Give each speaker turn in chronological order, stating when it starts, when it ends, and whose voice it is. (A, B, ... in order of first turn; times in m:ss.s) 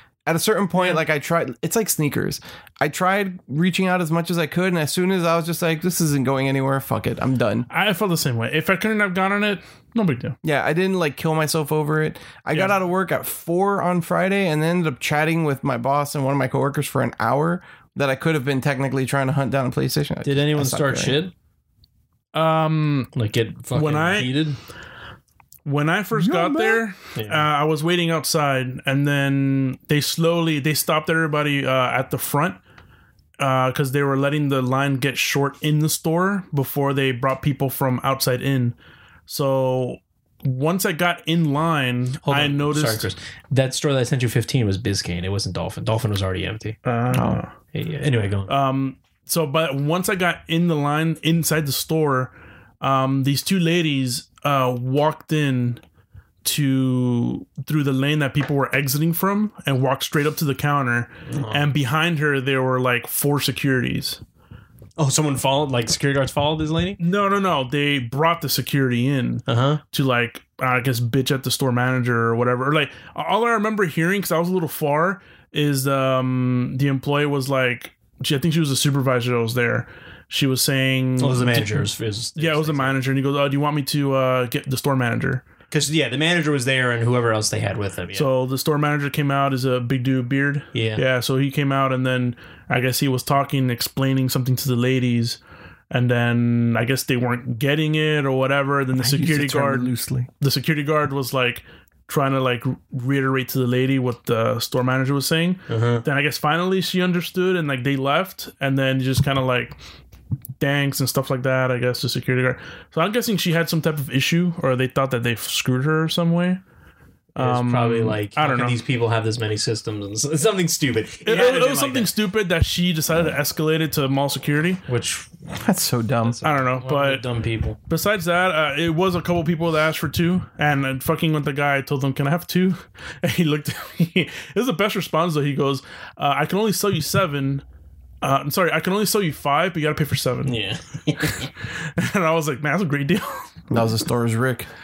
0:00.2-0:07.7 A
0:07.7-0:10.4 B
0:10.4-0:21.2 A
0:20.2-0:21.3 C
0:22.3-0:23.1 B
0:23.1-0:24.6 C
0:23.7-0:24.4 B
0:25.6-0:32.6 B
0:26.2-0:26.8 A
0:27.1-0:27.5 C
0:33.4-0:38.8 B
0:39.3-0:43.1 B
0:42.2-0:46.8 C
0:46.8-0:47.5 B
0:47.1-0:47.4 A
0:47.7-0:48.5 C
0:48.5-0:55.8 B
0:56.4-1:04.2 B
1:01.3-1:01.6 C
1:05.0-1:07.0 C
1:07.0-1:21.8 B
1:09.5-1:09.8 C
1:21.2-1:23.0 C
1:22.4-1:25.5 B
1:25.7-1:28.3 C
1:28.1-1:49.8 B
1:30.7-1:31.0 C
1:39.0-1:40.3 A
1:45.7-1:46.0 C
1:50.6-1:56.6 B
1:57.3-1:58.8 B
1:57.4-2:02.1 C
2:01.2-2:04.8 B
2:04.9-2:05.3 C
2:05.5-2:06.4 A
2:06.4-2:07.2 B
2:06.4-2:07.8 C
2:07.9-2:17.6 B
2:18.2-2:20.6 B
2:20.4-2:21.5 C
2:21.2-2:23.6 B
2:23.7-2:24.7 A